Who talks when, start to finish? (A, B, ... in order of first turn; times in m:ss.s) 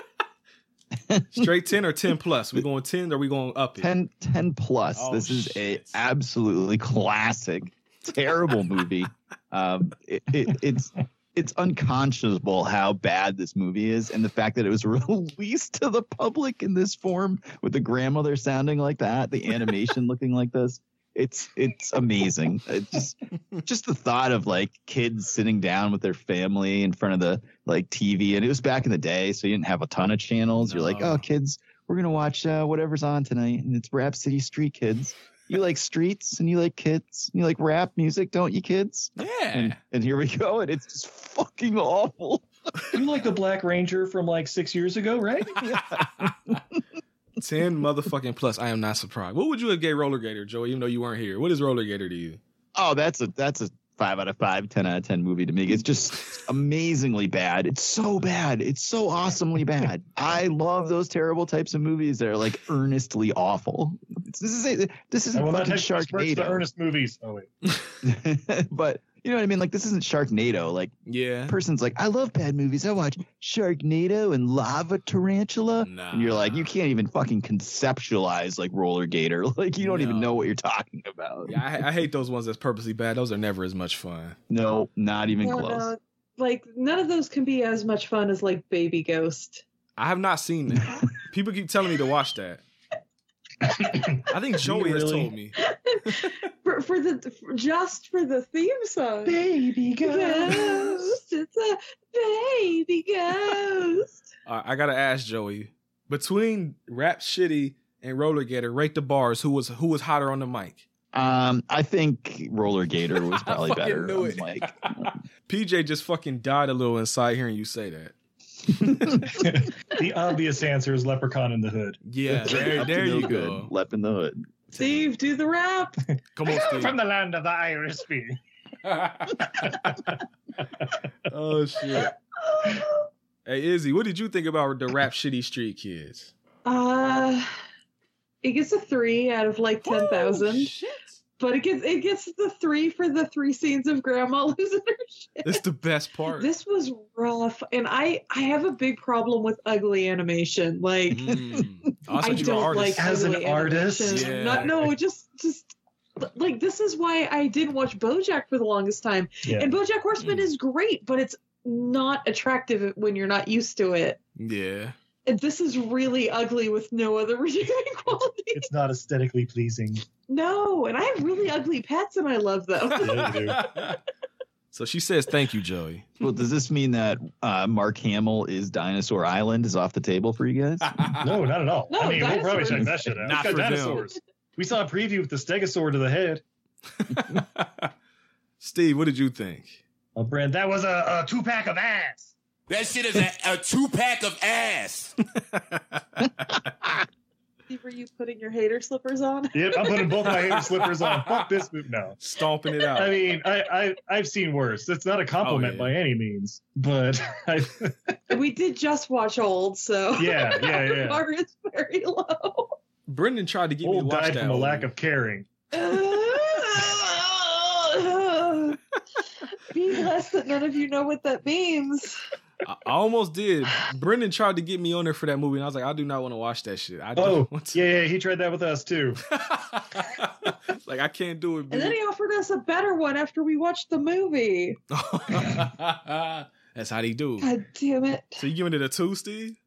0:01.0-0:01.5 A
0:01.3-0:03.9 B
0:03.8-0:42.4 A
0:04.9-0:06.0 B
0:30.6-0:31.2 B
0:39.2-0:39.8 B
0:42.9-0:45.6 C
0:45.6-0:46.6 A
0:47.4-0:52.4 B
0:52.7-1:06.6 A
1:05.3-1:07.5 C
1:08.0-1:10.9 A
1:11.1-1:11.5 B
1:11.5-1:21.6 A
1:15.8-1:16.7 B
1:19.8-1:20.5 B
1:21.4-1:24.4 B
1:24.5-1:25.9 A
1:25.4-1:29.6 D
1:30.0-1:32.6 B
1:33.6-1:35.3 C
1:34.3-1:35.6 B
1:35.6-1:39.4 D
1:39.2-1:41.1 C
1:40.0-1:44.2 D
1:44.4-1:50.8 B
1:51.1-1:55.1 A
1:53.2-1:58.1 B
1:58.7-1:59.3 B
1:59.3-2:02.0 C
2:02.0-2:03.7 B
2:02.3-2:05.0 A
2:04.8-2:06.0 D
2:06.4-2:07.0 B
2:06.4-2:08.4 C
2:09.4-2:10.2 C
2:11.3-2:12.1 B
2:12.6-2:12.9 D
2:13.4-2:16.3 B
2:16.6-2:17.5 D
2:18.4-2:20.7 D
2:19.8-2:21.1 B
2:21.4-2:25.6 D
2:25.4-2:26.5 B
2:26.4-2:31.3 D
2:31.1-2:33.1 B
2:31.3-2:31.6 A
2:32.2-2:44.2 D
2:32.3-2:34.9 C
2:34.1-2:34.7 B
2:39.4-2:39.7 C
2:40.2-2:40.5 B
2:44.4-2:44.9 B
2:45.2-2:48.6 D
2:48.5-2:50.0 C
2:50.3-2:53.4 D
2:53.0-2:53.6 C
2:53.2-2:54.0 B
2:54.7-2:56.1 B
2:56.2-3:00.9 A
3:00.9-3:01.4 B
3:01.2-3:06.4 C
3:01.9-3:03.0 D
3:03.2-3:04.1 B
3:07.0-3:07.9 B
3:08.6-3:09.8 B
3:10.2-3:12.3 C
3:12.7-3:15.1 E
3:15.4-3:16.6 B
3:17.7-3:19.9 D
3:19.5-3:22.2 C
3:20.3-3:21.4 B
3:22.2-3:23.2 B
3:22.9-3:28.2 C
3:25.4-3:25.9 B
3:28.3-3:32.7 D
3:30.2-3:31.2 C
3:33.1-3:34.9 B
3:33.8-3:35.5 C
3:35.7-3:38.8 D
3:39.6-3:42.2 D
3:42.6-3:47.8 B
3:47.2-3:49.2 C
3:49.3-3:52.0 B
3:51.7-3:54.8 D
3:54.9-3:57.5 B
3:57.4-3:58.4 D
3:58.4-3:59.6 B